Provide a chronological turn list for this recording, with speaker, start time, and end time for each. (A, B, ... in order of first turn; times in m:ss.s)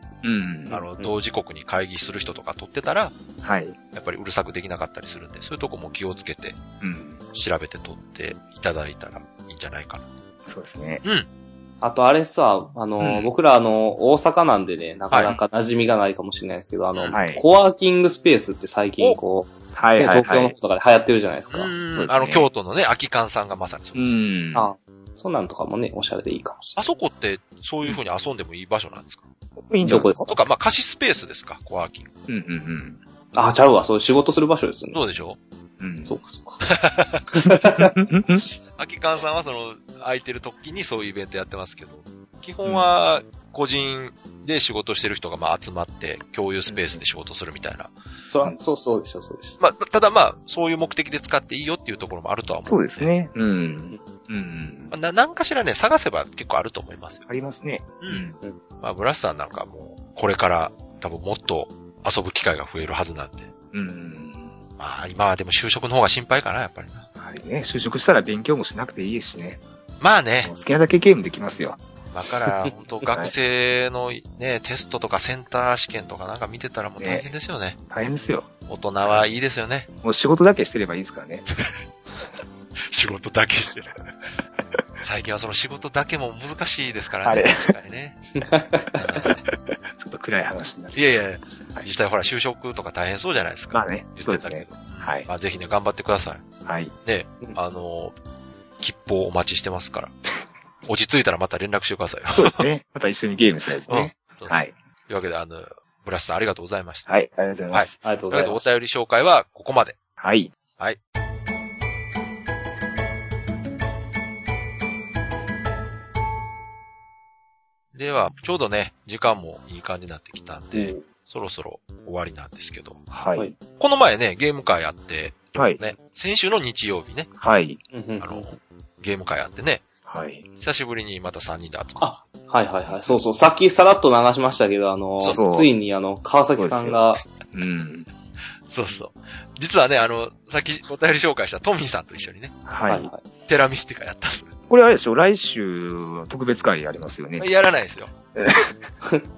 0:00.2-0:00.8 A
0:00.7-0:01.1 B
0:00.7-0:03.1 C
0:03.4-0:03.8 A
0:03.9-0:06.6 C
0:06.8-0:07.2 A
0:07.3-0:10.1 C
0:10.5-0:11.0 A
0:11.8-0:21.7 B
0:13.0-0:13.3 A
0:15.1-0:15.4 C
0:16.9-0:17.2 C
0:17.1-0:17.4 A
0:19.8-0:20.5 A
0:21.5-0:24.2 C
0:21.9-0:22.5 A
0:24.0-0:24.7 A
0:24.6-0:26.8 B
0:26.8-0:29.2 C
0:29.7-0:30.4 A
0:29.8-0:30.3 B
0:30.3-0:32.1 C
0:32.3-0:33.0 A
0:33.3-0:35.0 B
0:34.9-0:35.4 C
0:35.8-0:36.2 A
0:36.1-0:36.7 B
0:36.7-0:37.2 C
0:37.3-0:38.4 B
0:37.8-0:38.4 A
0:38.8-0:47.9 C
0:42.6-0:42.9 A
0:46.7-0:47.0 A
0:48.3-0:49.6 B
0:49.6-0:53.1 C
0:52.7-0:54.9 A
0:54.9-0:57.2 C
0:57.3-0:58.4 A
0:58.0-0:58.3 C
0:58.8-1:03.5 C
1:03.7-1:04.5 A
1:04.8-1:07.1 C
1:07.2-1:09.6 A
1:10.0-1:10.5 C
1:10.4-1:11.8 A
1:12.1-1:17.8 C
1:17.0-1:17.3 A
1:17.9-1:18.5 A
1:18.7-1:19.9 C
1:20.0-1:21.4 A
1:22.9-1:23.9 C
1:25.0-1:28.3 C
1:27.2-1:27.7 A
1:28.4-1:28.9 B
1:29.0-1:29.4 C
1:29.5-1:31.1 A
1:30.9-1:36.4 C
1:33.7-1:35.3 A
1:36.6-1:36.9 A
1:37.0-1:38.2 C
1:38.8-1:40.1 C
1:40.9-1:42.7 C
1:42.3-1:44.7 A
1:43.9-1:47.1 C
1:47.1-1:48.0 A
1:47.7-1:50.0 C
1:48.0-1:48.7 B
1:50.2-1:50.5 A
1:57.9-2:03.0 C
2:00.7-2:01.0 A
2:03.1-2:03.5 A
2:03.8-2:07.3 C
2:05.6-2:05.8 A
2:07.4-2:07.8 A
2:07.9-2:08.6 B
2:08.2-2:09.8 C
2:10.1-2:10.5 A
2:10.6-2:12.1 C
2:12.0-2:17.2 B
2:15.3-2:15.7 A
2:16.6-2:18.1 A
2:18.7-2:22.6 C
2:22.7-2:23.1 A
2:22.9-2:23.2 B
2:23.5-2:24.5 C
2:24.7-2:27.5 A
2:27.4-2:28.1 C
2:28.4-2:28.7 A